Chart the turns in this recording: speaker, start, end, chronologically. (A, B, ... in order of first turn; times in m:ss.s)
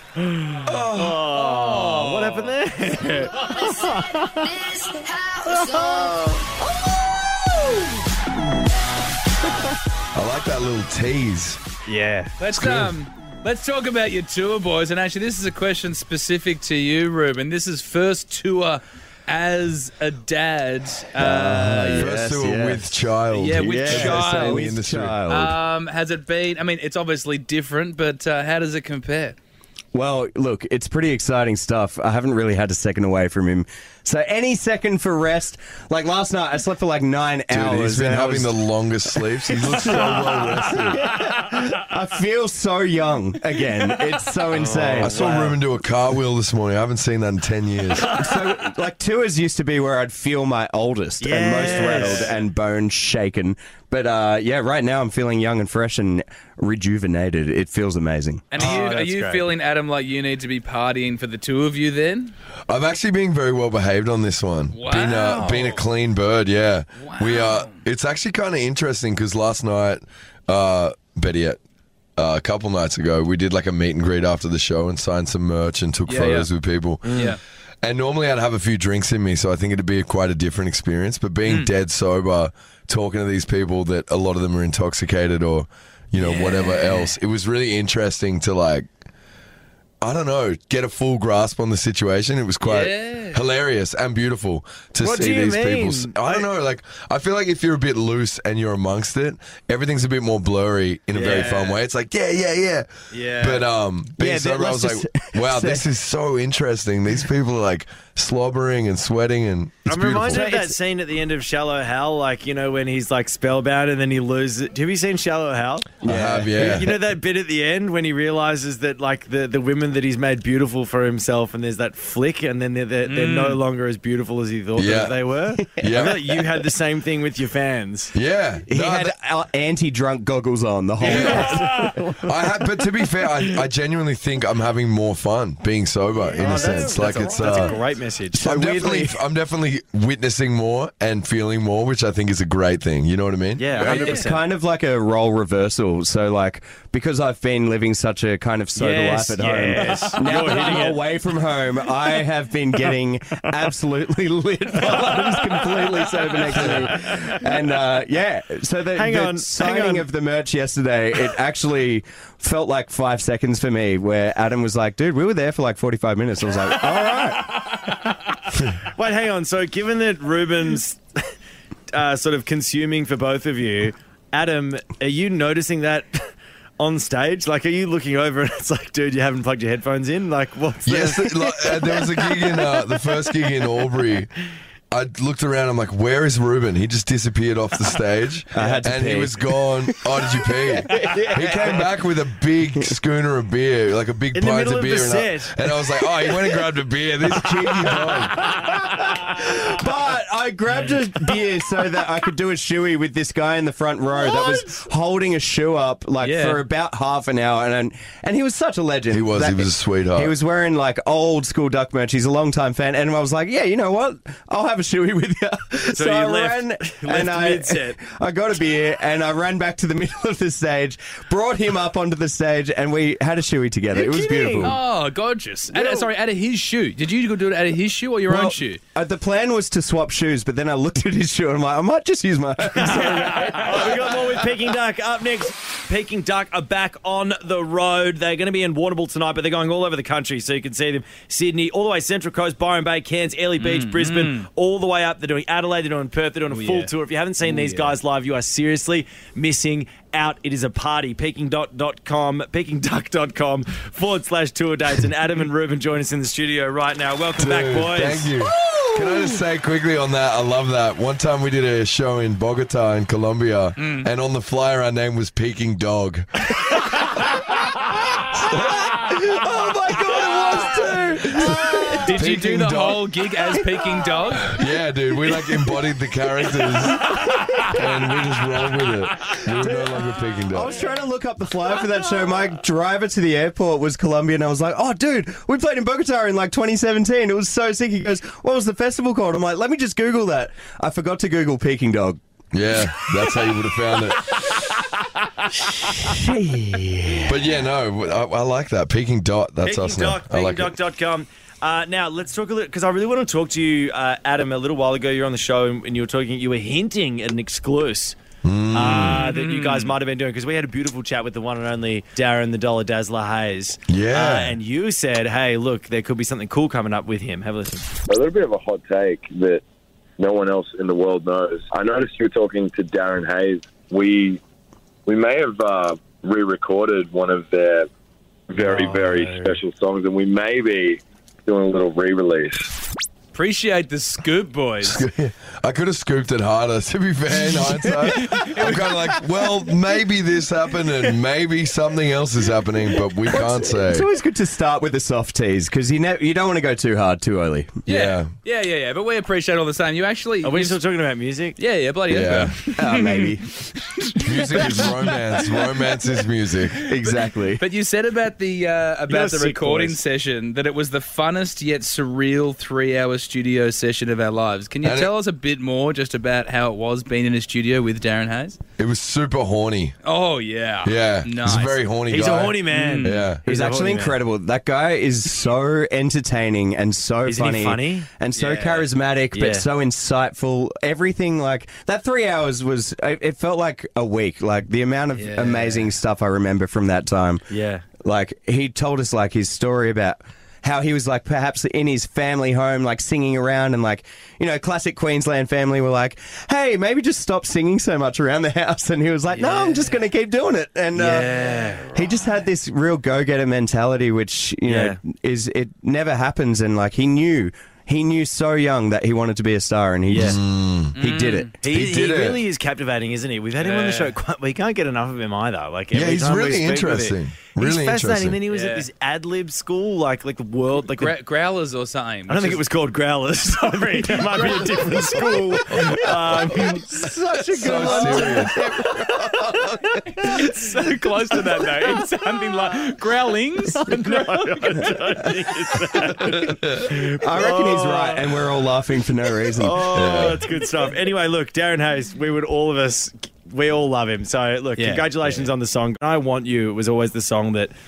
0:00.2-0:04.6 A
0:00.7-0:01.2 B
0:01.3-0:02.5 C
0:05.6-0:06.5 A
0:10.2-0:11.6 B
0:11.9-0:12.4 A
0:12.4-0:22.1 C
0:12.5-0:12.9 B
0:21.2-0:25.6 D
0:22.0-0:25.2 B
0:23.3-0:24.7 C
0:25.3-0:29.4 C
0:29.9-0:45.3 D
0:37.5-0:41.0 B
0:44.5-0:45.6 A
0:44.6-0:44.9 C
0:45.0-0:48.2 B
0:48.0-0:58.5 D
0:48.0-0:48.3 A
0:51.2-0:52.4 A
0:51.7-0:52.1 C
0:58.5-1:02.3 C
0:58.6-0:59.5 A
1:02.7-1:11.6 B
1:04.7-1:05.8 C
1:07.0-1:07.8 C
1:12.2-1:17.3 B
1:16.1-1:16.5 C
1:17.0-1:17.4 A
1:17.1-1:17.4 C
1:17.8-1:28.9 B
1:21.4-1:21.7 C
1:26.2-1:27.1 C
1:30.0-1:50.5 B
1:32.6-1:33.4 C
1:35.0-1:36.5 A
1:41.1-1:41.8 A
1:43.1-1:43.7 A
1:44.1-1:45.9 D
1:49.9-1:56.0 A
1:50.3-1:50.7 D
1:56.0-1:56.6 D
1:56.0-1:57.0 B
1:56.5-2:08.1 A
2:03.0-2:03.6 C
2:04.8-2:05.2 B
2:05.5-2:06.5 D
2:05.8-2:06.2 B
2:08.1-2:09.1 B
2:08.7-2:12.5 D
2:11.0-2:11.5 B
2:11.0-2:11.9 A
2:12.2-2:17.8 B
2:16.3-2:18.5 A
2:18.4-2:19.2 D
2:18.4-2:24.1 B
2:23.6-2:24.5 A
2:23.8-2:47.6 D
2:28.8-2:31.0 A
2:29.7-2:30.9 C
2:36.1-2:37.4 A
2:36.6-2:36.8 B
2:39.0-2:40.1 A
2:46.9-2:48.1 A
2:48.6-2:51.2 A
2:51.9-2:56.1 A
2:56.8-3:01.8 A
3:00.9-3:04.3 B
3:04.9-3:18.5 B
3:08.5-3:11.9 D
3:08.6-3:09.0 A
3:11.0-3:11.8 A
3:14.3-3:15.9 A
3:18.1-3:44.8 D
3:26.2-3:26.6 C
3:29.1-3:30.3 B
3:35.9-3:38.0 A
3:43.9-3:44.8 A
3:44.6-3:48.8 C
3:45.7-3:46.0 D
3:48.3-3:54.3 D
3:52.7-4:18.3 A
4:03.6-4:04.5 C
4:06.5-4:06.9 C
4:07.4-4:08.0 C
4:17.4-4:26.6 B
4:18.4-4:19.4 D
4:23.8-4:24.1 C
4:27.5-4:27.8 D
4:28.5-4:29.0 B
4:28.5-4:32.2 D
4:30.2-4:30.6 B
4:31.1-4:33.0 B
4:32.0-4:34.6 C
4:33.7-4:34.2 D
4:34.3-4:37.0 B
4:37.0-4:37.6 D
4:37.7-4:40.9 B
4:39.6-4:39.9 D
4:40.5-4:52.2 D
4:52.5-4:54.5 B
4:55.8-4:57.5 D
4:57.3-5:00.8 B
4:59.6-5:08.2 A
5:08.4-5:09.3 B
5:08.7-5:17.9 A
5:08.8-5:09.9 C
5:13.9-5:14.6 B
5:18.1-5:19.6 E
5:20.2-5:24.4 E
5:25.1-5:27.9 E
5:28.5-5:32.7 E
5:28.6-5:29.6 A
5:33.3-5:35.1 C
5:34.8-5:44.1 B
5:37.5-5:38.2 D
5:38.0-5:38.9 C
5:43.0-5:47.8 D
5:47.9-5:50.8 C
5:47.9-5:48.3 B
5:50.4-5:51.6 A
5:51.6-6:08.6 C
5:52.1-5:52.6 B
5:52.6-5:53.5 D
5:54.2-5:56.8 B
5:56.8-5:57.6 D
5:59.1-6:00.0 A
6:04.8-6:05.1 B
6:08.8-6:10.0 B
6:10.0-6:11.8 C
6:10.8-6:13.4 B
6:12.1-6:14.2 A
6:12.7-6:13.4 C
6:13.4-6:27.4 D
6:17.2-6:19.7 A
6:25.2-6:25.7 C
6:25.5-6:25.8 A
6:27.5-6:27.8 A
6:28.0-6:41.4 D
6:39.3-6:39.9 A
6:40.9-6:42.1 A
6:41.9-6:51.5 D
6:44.6-6:45.0 A
6:50.1-6:50.4 A
6:50.2-6:51.0 B
6:51.0-6:51.5 C
6:51.6-7:01.2 A
6:51.6-6:52.4 B
6:53.6-6:54.1 C
6:55.9-6:58.4 B
6:58.5-6:58.9 C
7:00.8-7:02.6 C
7:02.3-7:07.1 A
7:04.2-7:10.2 D
7:07.5-7:08.6 B
7:08.0-7:08.4 A
7:10.0-7:15.0 C
7:13.9-7:18.5 A
7:16.4-7:20.2 D
7:19.3-7:27.7 A
7:19.9-7:20.4 B
7:24.8-7:25.5 C